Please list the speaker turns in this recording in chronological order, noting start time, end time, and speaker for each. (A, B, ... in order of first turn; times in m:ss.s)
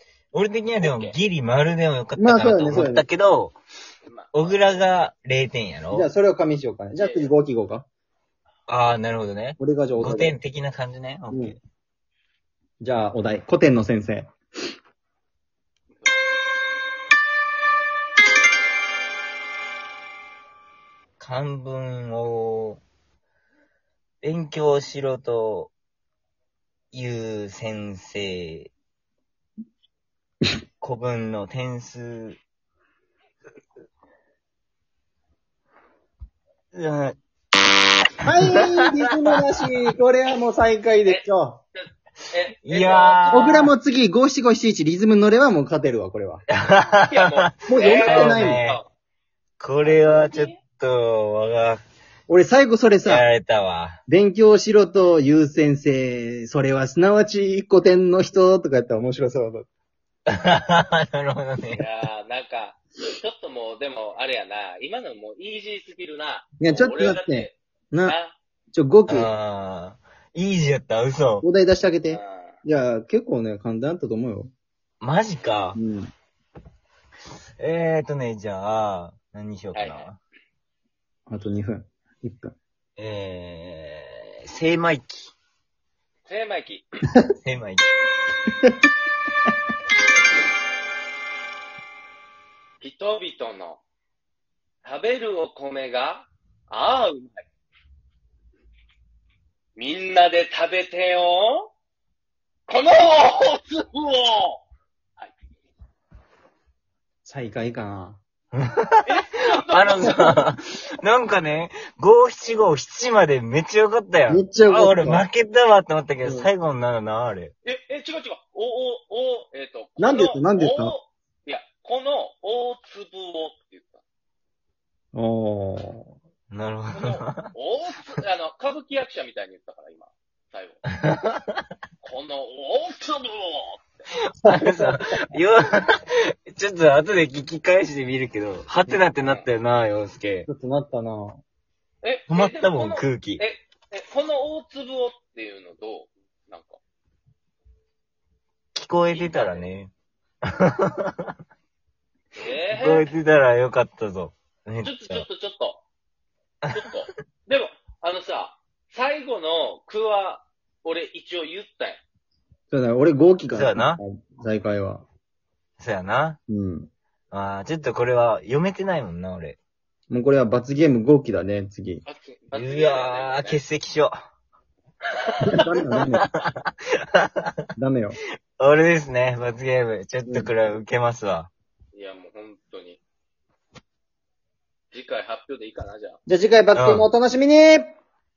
0:00.3-0:03.5 A
0:00.8-0:01.2 B
0:02.2-0:03.0 C
0:04.1-0:04.8 B
0:04.3-0:06.1 A
0:05.9-0:07.8 C
0:07.0-0:07.3 B
0:08.7-0:11.6 A
0:09.6-0:10.4 C
0:11.3-0:11.6 C
0:12.8-0:14.3 C
0:15.9-0:16.2 B
0:21.2-0:22.8 A
0:24.2-0:25.7 A
0:26.9-0:28.7 A
0:30.8-0:32.4 A
0:36.7-0:37.2 A
0:38.2-0:41.6 C
0:38.2-0:38.6 A
0:41.0-0:43.7 B
0:42.6-0:43.7 A
0:43.3-0:46.4 C
0:46.5-0:48.8 A
0:47.0-0:48.9 B
0:47.7-0:48.6 C
0:49.6-0:51.8 A
0:49.8-0:50.6 B
0:52.3-0:53.3 C
0:53.0-0:54.0 A
0:54.1-0:59.7 C
1:00.3-1:01.8 A
1:01.7-1:08.4 B
1:06.6-1:08.2 C
1:08.7-1:09.3 C
1:09.1-1:11.4 A
1:11.4-1:14.5 C
1:12.1-1:12.6 B
1:15.0-1:15.8 A
1:15.8-1:16.1 C
1:17.6-1:20.2 A
1:19.7-1:20.1 B
1:21.3-1:22.5 C
1:23.0-1:25.3 A
1:26.3-1:26.8 B
1:27.4-1:27.9 A
1:32.8-1:33.8 B
1:34.8-1:37.4 B
1:39.8-1:41.7 B
1:42.7-1:44.6 B
1:47.2-1:48.2 C
1:48.5-1:57.5 A
1:49.0-1:50.4 B
1:50.0-1:50.3 C
1:54.3-1:55.3 C
1:56.2-1:56.5 C
1:57.6-2:04.0 B
2:00.0-2:00.9 C
2:05.1-2:06.1 C
2:06.5-2:07.5 A
2:06.9-2:10.8 B
2:11.0-2:11.6 A
2:12.0-2:13.9 B
2:14.4-2:20.5 A
2:14.4-2:15.0 C
2:19.2-2:19.5 B
2:20.4-2:21.4 C
2:22.0-2:26.8 B
2:22.3-2:23.4 A
2:28.7-2:29.9 A
2:29.1-2:29.7 B
2:30.4-2:31.3 A
2:32.4-2:33.1 B
2:32.7-2:35.2 A
2:34.8-2:35.8 B
2:36.7-2:42.0 B
2:42.7-2:45.0 C
2:43.5-2:44.0 A
2:45.8-2:46.4 A
2:46.5-2:46.9 C
2:47.3-2:49.6 A
2:50.1-2:52.0 C
2:52.0-2:53.6 B
2:52.5-2:54.1 A
2:55.3-2:55.6 B
2:55.4-2:56.3 C
2:56.0-2:56.6 A
2:57.2-2:57.5 A
2:57.8-2:58.2 C
2:58.6-3:01.5 A
3:00.2-3:00.5 C
3:01.9-3:03.0 B
3:04.9-3:06.2 B
3:06.3-3:07.9 C
3:06.7-3:07.1 A